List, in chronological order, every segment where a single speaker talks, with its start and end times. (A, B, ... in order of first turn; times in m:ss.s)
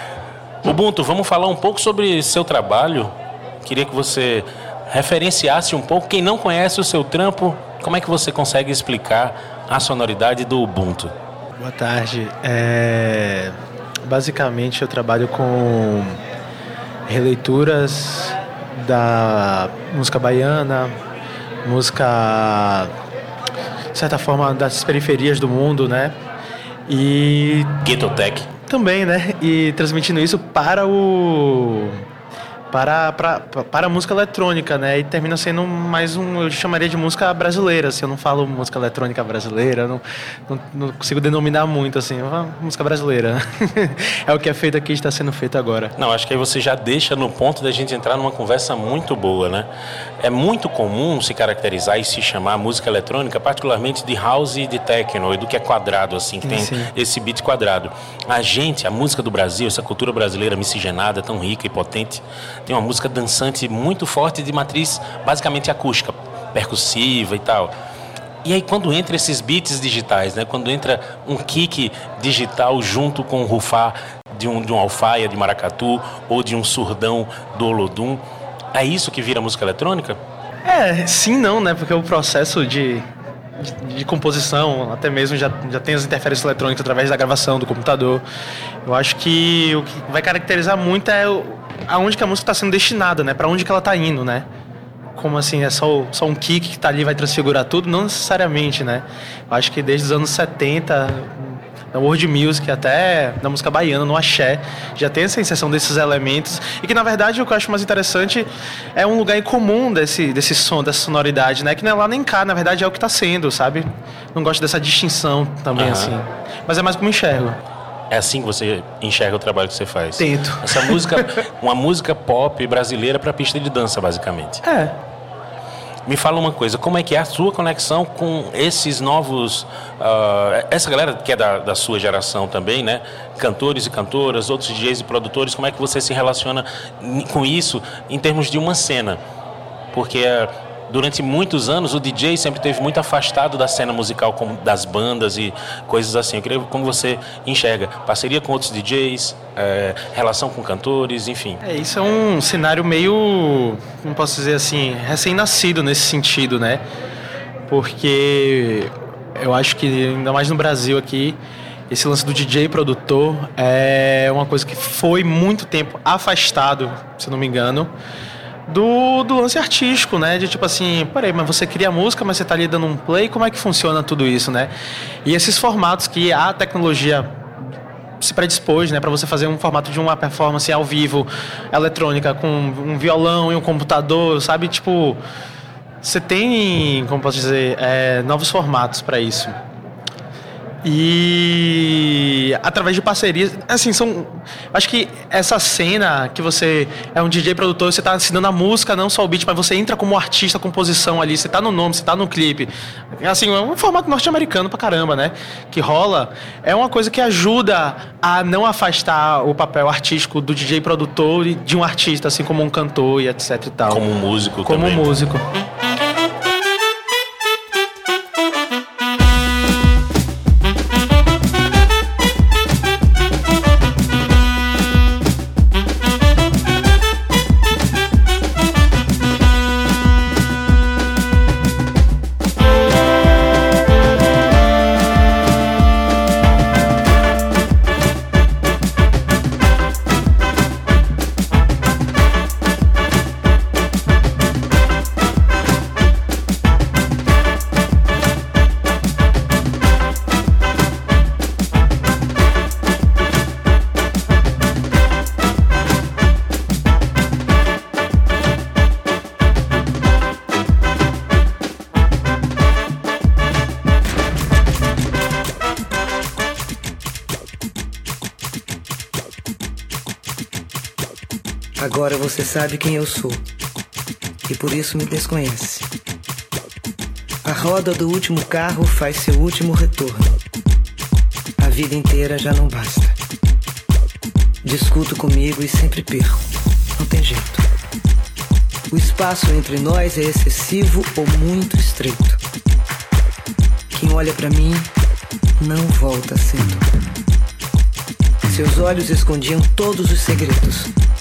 0:00.6-0:11.1 A
0:11.6-0:13.6 B
0:14.1-0:16.2 B
0:17.1-0:20.9 B
0:21.6-0:22.9 B
0:23.9-0:26.2 B
0:26.9-0:27.8 B
0:27.8-0:28.5 A
0:28.7-0:32.0 B
0:32.7-0:45.9 B
0:46.0-0:49.7 A
0:50.2-1:07.7 A
0:56.4-0:56.9 B
1:08.4-1:20.2 A
1:20.6-1:23.1 B
1:23.6-1:28.2 B
1:28.8-1:34.5 B
1:35.2-1:57.6 B
1:55.8-1:56.1 A
1:58.1-2:04.6 A
2:00.2-2:01.2 B
2:04.6-2:05.0 B
2:06.1-2:19.2 A
2:19.9-2:31.6 A
2:31.6-2:36.8 B
2:37.7-2:41.4 B
2:41.9-2:47.9 B
2:48.7-2:54.7 B
2:55.2-2:57.3 B
2:58.2-3:05.2 B
3:06.0-3:09.6 B
3:10.8-3:34.0 B
3:33.9-3:35.1 A
3:34.6-3:35.4 B
4:31.8-4:33.5 C
4:34.5-4:35.9 C
4:37.4-4:40.4 C
4:41.6-4:43.2 C
4:44.6-4:46.4 C
4:47.0-4:47.6 C
4:48.9-4:52.4 C
4:53.9-4:54.9 C
4:55.6-4:56.8 C
4:58.5-5:00.9 C